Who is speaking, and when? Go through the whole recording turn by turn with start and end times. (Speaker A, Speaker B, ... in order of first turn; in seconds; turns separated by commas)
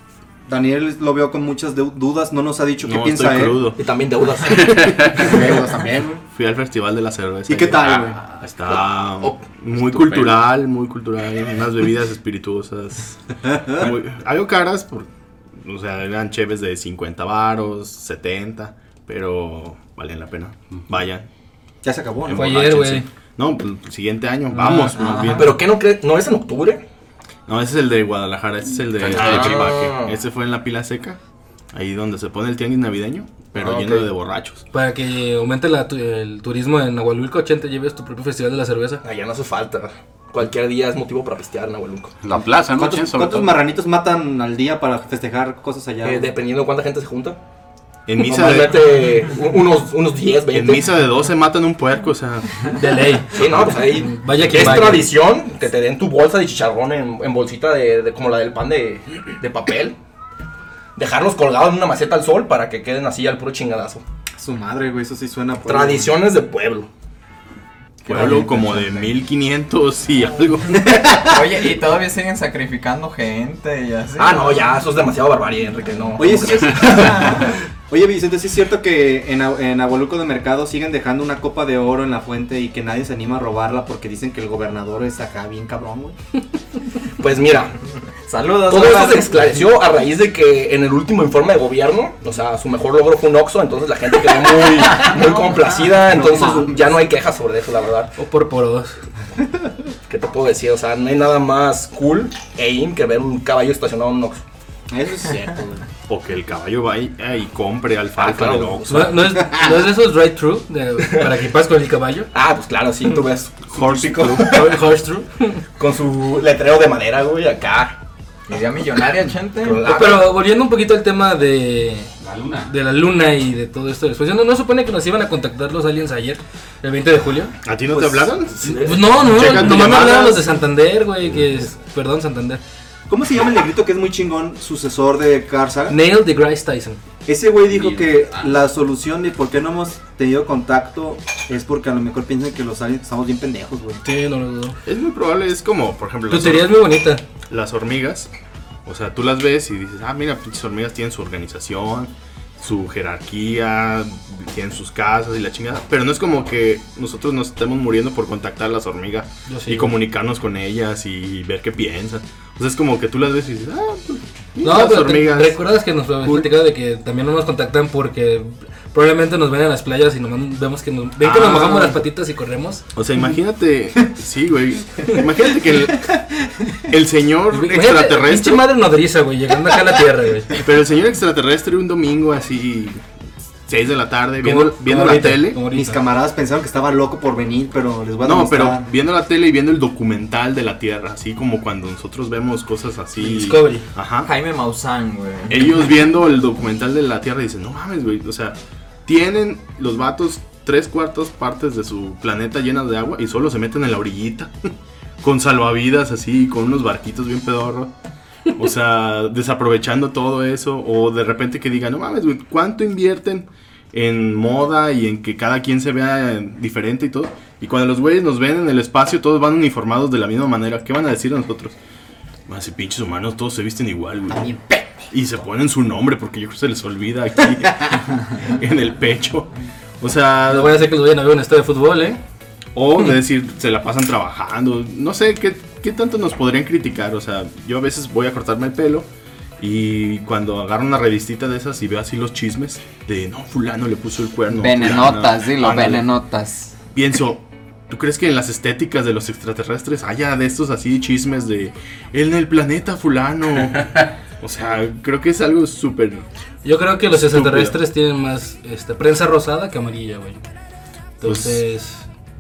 Speaker A: 0.5-3.7, Speaker B: 2.8-3.8, Speaker C: 3.8-5.6, Speaker D: 4.8-5.1, Speaker A: 5.0-6.2, Speaker B: 6.3-7.9, Speaker A: 7.5-8.2, Speaker C: 8.4-9.4, Speaker B: 8.5-21.3, Speaker A: 13.5-13.9, Speaker A: 21.8-22.5, Speaker B: 22.2-25.6, Speaker E: 22.3-23.1, Speaker E: 24.5-25.0, Speaker F: 25.0-25.4, Speaker C: 25.3-26.8, Speaker B: 27.5-31.2, Speaker D: 29.0-29.7, Speaker C: 29.1-30.2, Speaker B: 31.7-34.6, Speaker C: 33.6-34.0, Speaker E: 34.7-39.0, Speaker C: 39.0-42.1, Speaker D: 42.2-43.6, Speaker A: 42.8-46.3, Speaker C: 46.0-47.4, Speaker B: 48.1-48.8, Speaker C: 48.2-50.9, Speaker B: 50.5-52.6, Speaker E: 52.8-55.1, Speaker C: 53.3-60.0, Speaker B: 53.4-53.6, Speaker C: 61.0-64.0, Speaker A: 64.4-66.2, Speaker C: 65.7-66.9, Speaker F: 68.0-68.9, Speaker B: 68.1-71.2, Speaker A: 68.1-68.4, Speaker A: 70.8-71.3, Speaker F: 71.2-74.7, Speaker C: 74.2-77.5, Speaker A: 76.2-86.2, Speaker C: 87.2-87.8, Speaker F: 88.3-89.5, Speaker C: 88.7-98.1, Speaker A: 96.1-96.8, Speaker E: 98.2-99.0, Speaker C: 100.1-104.4, Speaker A: 104.9-105.8, Speaker B: 106.1-109.1, Speaker C: 108.2-109.4, Speaker E: 108.9-112.3, Speaker C: 111.0-111.3, Speaker C: 112.3-114.8, Speaker B: 113.7-114.5, Speaker E: 114.4-115.6, Speaker C: 115.8-118.0, Speaker F: 118.5-119.9, Speaker C: 119.6-120.3, Speaker E: 119.8-122.1, Speaker D: 122.2-122.7, Speaker E: 122.7-127.5, Speaker B: 127.6-130.5, Speaker C: 128.6-129.9, Speaker E: 128.7-132.6, Speaker A: 133.1-136.0, Speaker E: 135.9-137.0, Speaker A: 137.3-144.0, Speaker E: 144.0-144.8, Speaker B: 144.8-146.8, Speaker E: 146.3-147.2, Speaker B: 147.5-148.3, Speaker B: 148.9-165.6, Speaker E: 159.5-160.0, Speaker E: 164.6-172.8, Speaker B: 166.2-166.5, Speaker B: 171.2-172.0, Speaker B: 172.9-176.2, Speaker B: 176.8-178.7, Speaker E: 177.5-180.6, Speaker B: 180.6-183.0, Speaker B: 183.7-185.6, Speaker E: 184.4-186.0, Speaker A: 185.7-188.8, Speaker B: 188.2-194.3, Speaker E: 193.2-193.9, Speaker F: 194.2-195.7, Speaker B: 195.5-204.7, Speaker B: 205.2-207.9, Speaker B: 208.5-221.8, Speaker B: 222.5-224.6, Speaker A: 224.4-225.1, Speaker B: 225.1-230.8, Speaker E: 230.5-232.2, Speaker B: 232.8-239.1, Speaker B: 239.6-246.1, Speaker F: 244.5-246.8, Speaker B: 246.9-256.2, Speaker E: 256.6-260.4, Speaker B: 257.1-257.8, Speaker E: 261.2-262.1, Speaker B: 261.2-261.6